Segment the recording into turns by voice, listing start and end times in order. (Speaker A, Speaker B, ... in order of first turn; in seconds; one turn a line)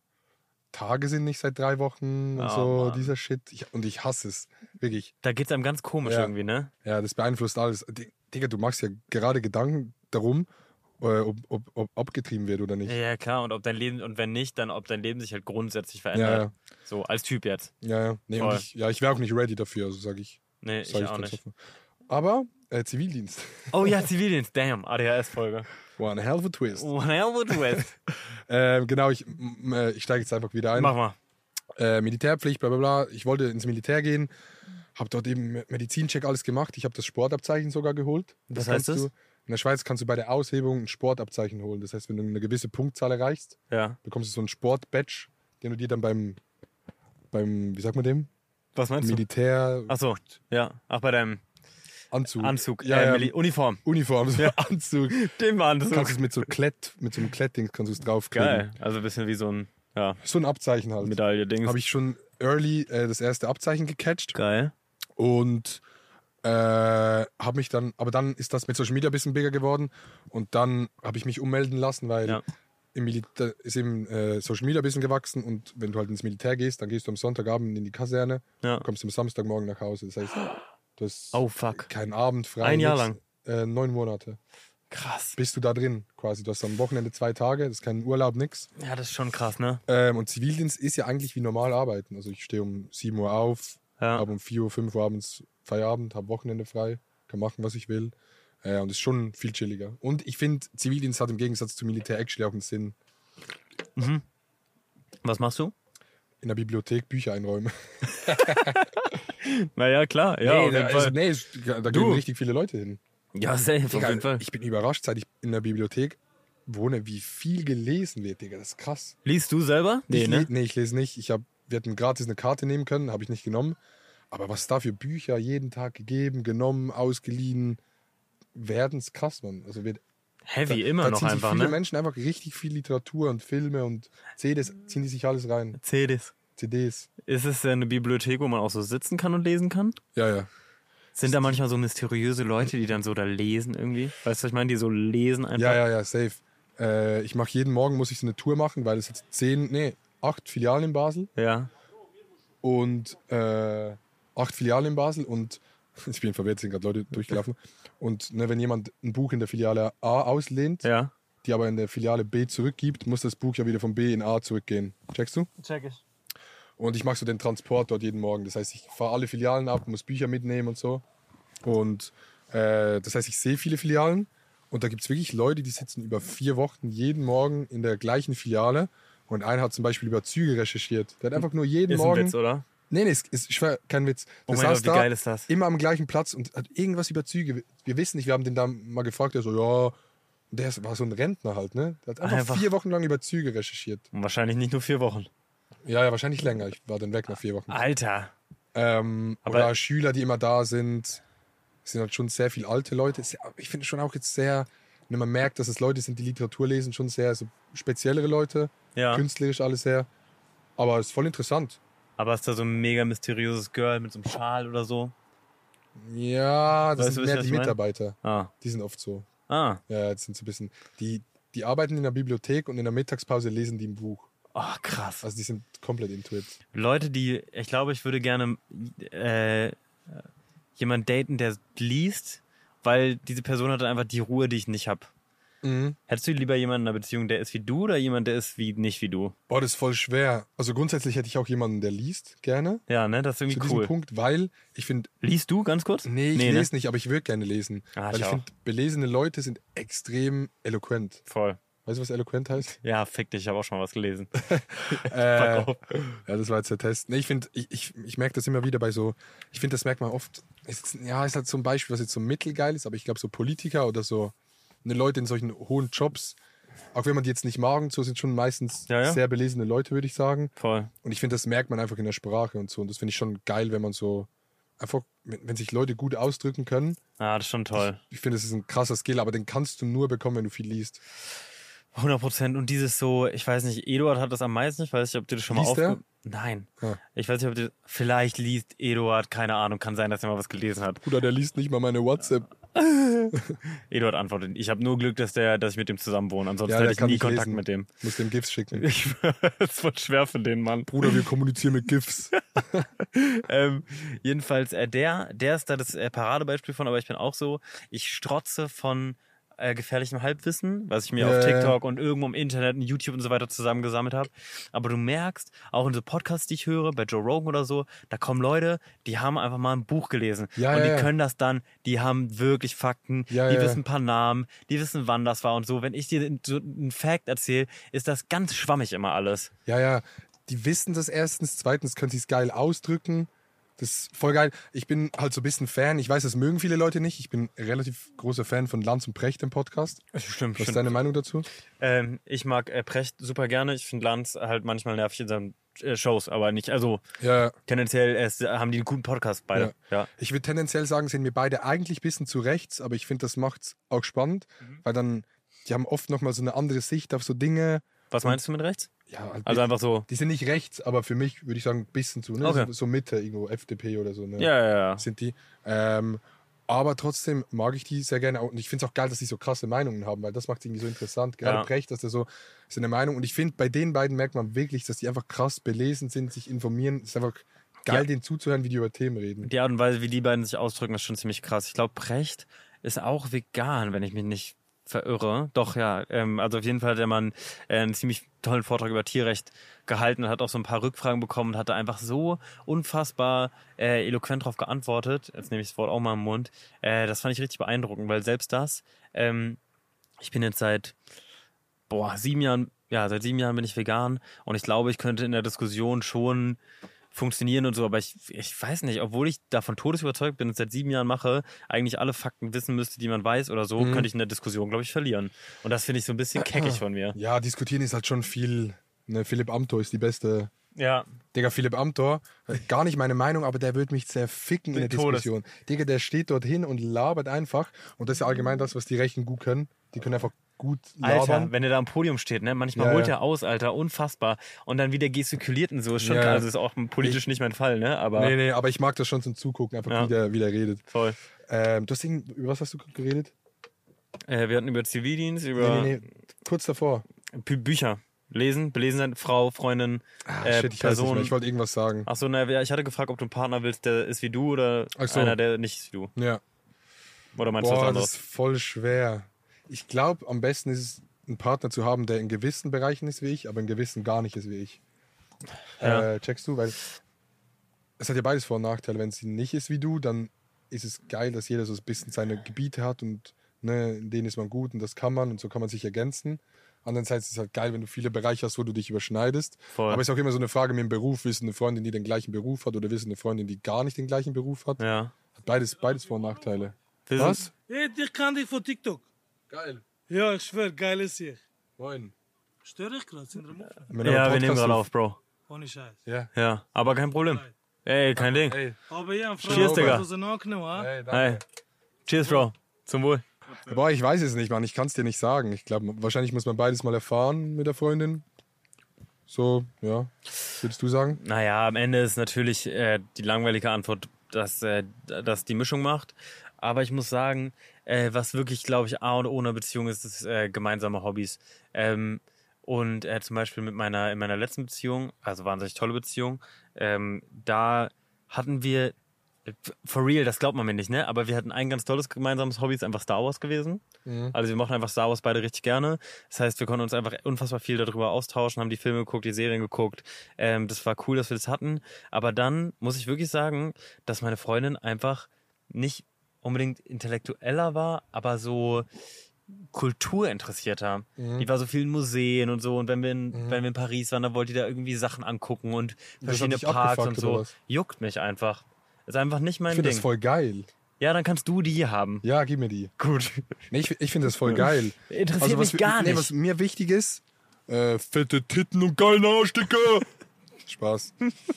Speaker A: 0.7-5.1
Speaker B: 2.4-3.1
Speaker B: 5.2-6.7
Speaker A: 6.0-6.3
Speaker A: 6.8-10.5
Speaker A: 11.0-13.0
Speaker B: 12.9-17.7
Speaker A: 16.1-16.5
Speaker A: 17.8-21.5
Speaker B: 18.4-18.6
Speaker B: 20.6-21.4
Speaker A: 22.1-24.0
Speaker B: 23.7-25.7
Speaker A: 26.0-26.9
Speaker B: 26.7-27.9
Speaker A: 27.5-30.9
Speaker B: 30.7-31.1
Speaker A: 31.8-34.3
Speaker A: 34.9-46.4
Speaker B: 38.5-39.1
Speaker B: 43.7-44.0
Speaker A: 47.3-48.3
Speaker B: 48.8-49.2
Speaker A: 49.0-50.0
Speaker B: 49.9-51.4
Speaker A: 52.1-55.2
Speaker B: 52.4-53.8
Speaker B: 55.1-56.2
Speaker A: 55.9-58.7
Speaker B: 58.3-60.2
Speaker A: 60.2-64.4
Speaker B: 61.0-61.8
Speaker B: 64.3-64.7
Speaker A: 65.2-65.8
Speaker A: 66.4-72.4
Speaker A: 72.9-84.4
Speaker B: 81.3-81.9
Speaker B: 82.6-83.2
Speaker B: 84.9-85.4
Speaker A: 85.4-88.7
Speaker B: 88.8-89.8
Speaker A: 89.9-103.0
Speaker B: 94.0-94.2
Speaker B: 104.0-104.2
Speaker B: 105.2-105.7
Speaker A: 106.4-108.9
Speaker B: 108.2-111.2
Speaker A: 110.4-113.0
Speaker B: 111.9-112.2
Speaker B: 113.3-114.4
Speaker A: 113.9-119.2
Speaker B: 119.2-120.5
Speaker A: 120.1-123.8
Speaker A: 124.3-127.8
Speaker A: 128.5-130.0
Speaker B: 130.5-131.8
Speaker A: 130.7-135.8
Speaker B: 135.8-136.3
Speaker A: 136.6-137.1
Speaker B: 137.2-140.0
Speaker A: 140.1-140.5
Speaker B: 141.2-145.8
Speaker A: 141.2-141.6
Speaker A: 145.6-151.3
Speaker B: 151.4-151.7
Speaker A: 152.6-160.9
Speaker B: 160.8-161.1
Speaker A: 161.4-165.5
Speaker B: 165.6-166.0
Speaker A: 166.8-171.0
Speaker A: 171.6-182.4
Speaker B: 181.9-182.7
Speaker A: 182.9-190.0
Speaker B: 184.5-185.5
Speaker A: 190.5-194.1
Speaker B: 192.2-192.7
Speaker B: 194.1-195.3
Speaker A: 195.8-197.8
Speaker B: 197.7-198.3
Speaker A: 198.7-201.2
Speaker B: 199.4-199.7
Speaker A: 201.8-210.1
Speaker B: 208.9-209.2
Speaker A: 210.8-211.8
Speaker B: 212.2-215.1
Speaker A: 215.9-219.3
Speaker B: 216.9-218.5
Speaker B: 219.5-219.8
Speaker A: 219.9-224.3
Speaker B: 224.5-225.2
Speaker A: 225.2-226.6
Speaker B: 226.7-230.2
Speaker B: 230.8-235.1
Speaker A: 235.6-236.0
Speaker B: 236.1-239.3
Speaker A: 239.5-242.8
Speaker B: 242.9-243.9
Speaker A: 243.5-245.1
Speaker B: 245.2-246.7
Speaker A: 246.0-251.2
Speaker B: 247.9-248.4
Speaker B: 251.3-251.6
Speaker A: 251.8-252.7
Speaker B: 252.8-254.3
Speaker A: 254.4-266.4
Speaker B: 254.9-256.0
Speaker A: 266.9-270.5
Speaker B: 268.9-269.2
Speaker B: 270.6-270.9
Speaker A: 271.0-277.0
Speaker B: 277.2-278.0
Speaker A: 277.8-281.0
Speaker B: 281.9-291.0
Speaker A: 285.5-286.0
Speaker A: 291.0-292.5
Speaker B: 292.7-293.4
Speaker B: 293.9-297.9
Speaker A: 296.7-298.9
Speaker B: 298.7-301.2
Speaker A: 300.9-302.9
Speaker B: 303.1-329.5
Speaker A: 311.2-311.8
Speaker A: 320.6-321.1
Speaker A: 323.3-323.8
Speaker A: 329.6-340.0
Speaker B: 340.1-340.9
Speaker A: 340.6-341.5
Speaker B: 341.8-347.0
Speaker A: 347.2-347.6
Speaker B: 347.7-350.1
Speaker A: 349.5-358.4
Speaker B: 358.1-358.9
Speaker A: 359.1-379.5
Speaker B: 359.5-360.1
Speaker B: 362.4-362.7
Speaker B: 364.4-365.0
Speaker B: 371.4-371.7
Speaker B: 379.4-399.6
Speaker B: 400.2-400.9
Speaker B: 401.9-406.6
Speaker B: 407.1-417.2
Speaker A: 413.8-414.1
Speaker A: 416.4-420.5
Speaker B: 420.8-421.1
Speaker A: 421.3-431.5
Speaker B: 424.7-425.3
Speaker B: 431.0-438.4
Speaker A: 432.8-433.1
Speaker A: 436.0-436.5
Speaker A: 438.1-440.8
Speaker B: 440.9-441.1
Speaker A: 441.5-443.3
Speaker B: 444.3-446.0
Speaker A: 445.6-447.0
Speaker B: 447.3-451.4
Speaker A: 450.2-452.1
Speaker B: 452.1-456.1
Speaker A: 455.0-455.4
Speaker A: 456.1-456.4
Speaker B: 457.4-458.1
Speaker A: 457.6-464.8
Speaker B: 465.8-466.1
Speaker A: 465.8-466.8
Speaker A: 468.0-484.8
Speaker B: 479.7-480.0
Speaker B: 484.8-485.1
Speaker A: 485.4-487.5
Speaker B: 487.1-487.5
Speaker C: 487.7-489.1
Speaker A: 489.5-489.8
Speaker C: 490.1-491.4
Speaker A: 491.8-492.1
Speaker C: 492.6-493.9
Speaker A: 493.9-494.9
Speaker B: 494.0-495.2
Speaker C: 495.5-496.0
Speaker A: 496.0-496.3
Speaker B: 496.4-498.6
Speaker A: 498.1-498.8
Speaker C: 498.9-500.9
Speaker A: 499.4-500.1
Speaker B: 499.4-500.0
Speaker A: 500.7-501.4
Speaker B: 501.1-501.4
Speaker B: 502.1-503.2
Speaker A: 503.6-508.2
Speaker A: 509.3-511.2
Speaker B: 511.2-528.9
Speaker B: 529.5-548.9
Speaker A: 534.0-534.4
Speaker B: 549.7-560.1
Speaker A: 551.2-551.5
Speaker A: 553.3-553.6
Speaker A: 556.2-557.5
Speaker A: 559.7-560.7
Speaker B: 561.0-562.2
Speaker A: 562.2-562.9
Speaker B: 563.0-563.5
Speaker A: 563.7-570.1
Speaker B: 565.1-566.3
Speaker A: 570.6-571.1